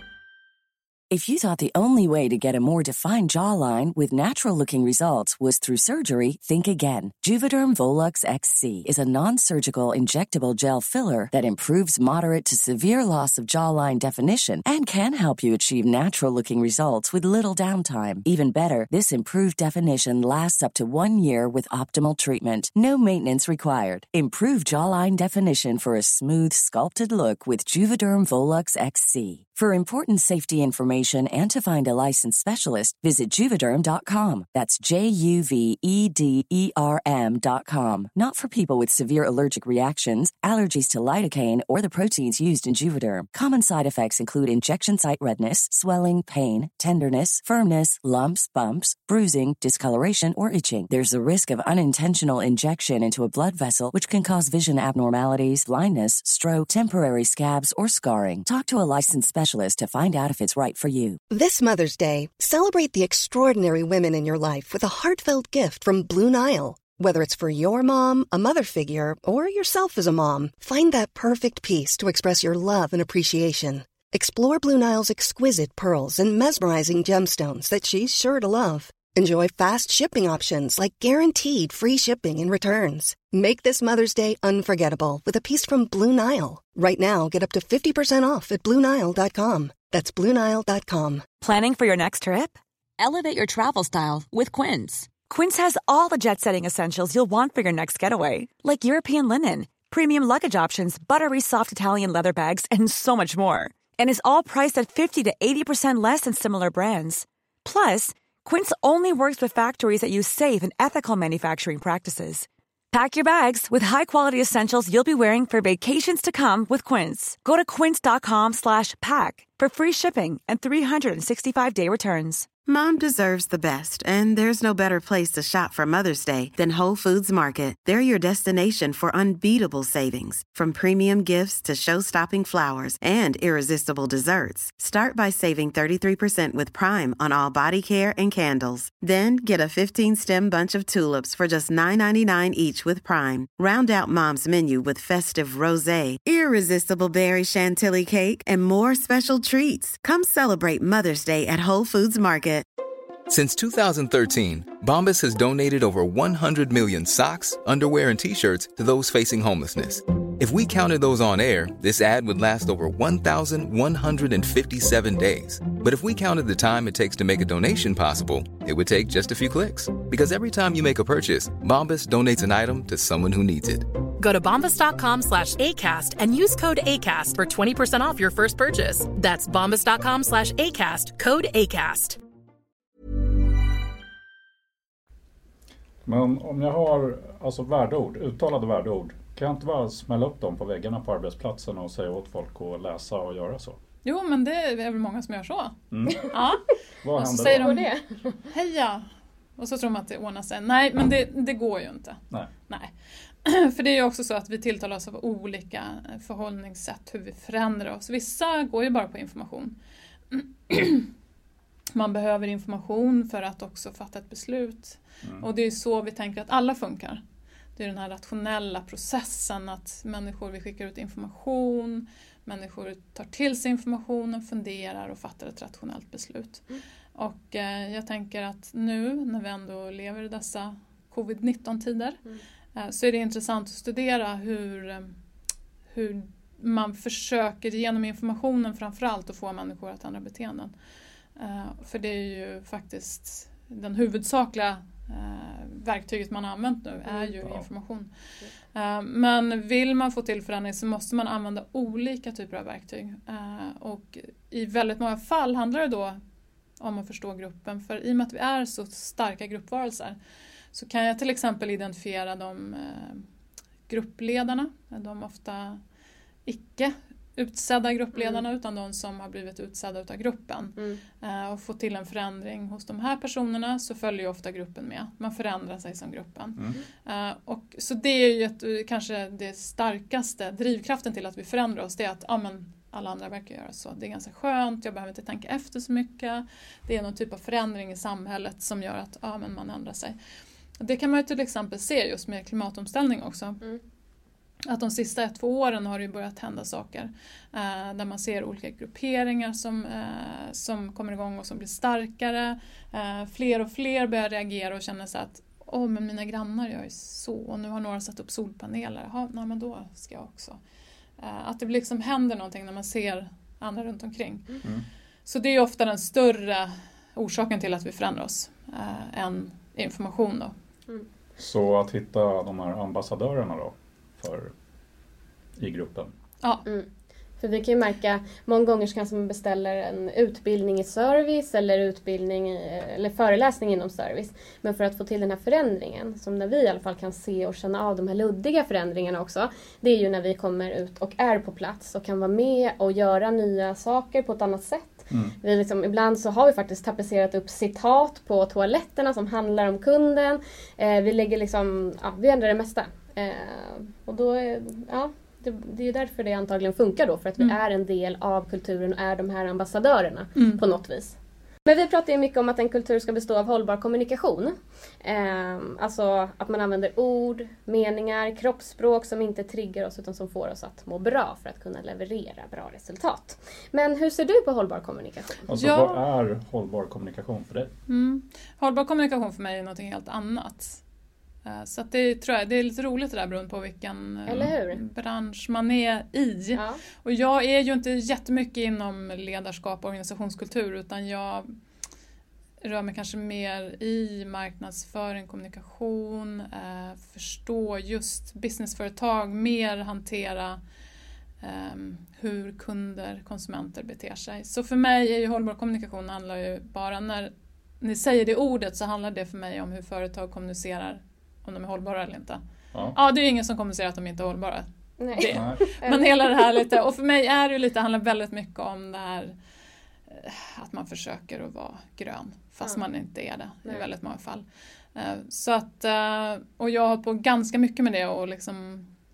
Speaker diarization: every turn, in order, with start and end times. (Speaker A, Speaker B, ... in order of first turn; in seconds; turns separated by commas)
Speaker A: 1.1-61.2, Speaker B: 61.3-91.2, Speaker C: 91.4-122.5, Speaker D: 122.7-152.7, Speaker E: 153.3-173.9, Speaker F: 174.2-182.2, Speaker G: 186.1-193.8, Speaker H: 194.0-195.8, Speaker G: 195.9-196.3, Speaker H: 196.3-196.6, Speaker G: 197.0-197.8, Speaker H: 197.2-197.9, Speaker I: 197.2-198.4, Speaker H: 198.5-199.0, Speaker H: 199.6-202.9, Speaker H: 203.4-209.8, Speaker H: 210.3-211.1, Speaker H: 211.9-217.2, Speaker H: 217.8-226.6, Speaker H: 227.2-232.2, Speaker H: 232.8-235.1, Speaker H: 235.9-240.7, Speaker H: 241.4-248.1, Speaker H: 248.7-256.2, Speaker H: 256.8-260.2, Speaker H: 260.7-263.2, Speaker H: 263.9-265.8, Speaker H: 266.4-290.1, Speaker I: 268.1-268.4, Speaker G: 276.6-276.8, Speaker H: 290.8-293.6, Speaker H: 294.7-310.6, Speaker H: 311.2-314.6, Speaker H: 315.2-320.5, Speaker G: 321.4-324.5, Speaker G: 325.6-326.1, Speaker I: 327.4-361.1, Speaker H: 360.4-360.6, Speaker I: 361.6-375.4, Speaker G: 375.5-377.7, Speaker H: 375.6-376.0, Speaker H: 377.9-380.8, Speaker H: 381.4-391.5, Speaker I: 384.3-384.8, Speaker G: 384.3-384.5, Speaker I: 386.5-386.8, Speaker H: 392.6-400.6, Speaker H: 401.4-412.4, Speaker H: 412.9-419.3, Speaker I: 415.0-416.7, Speaker G: 415.3-415.7, Speaker H: 420.1-428.9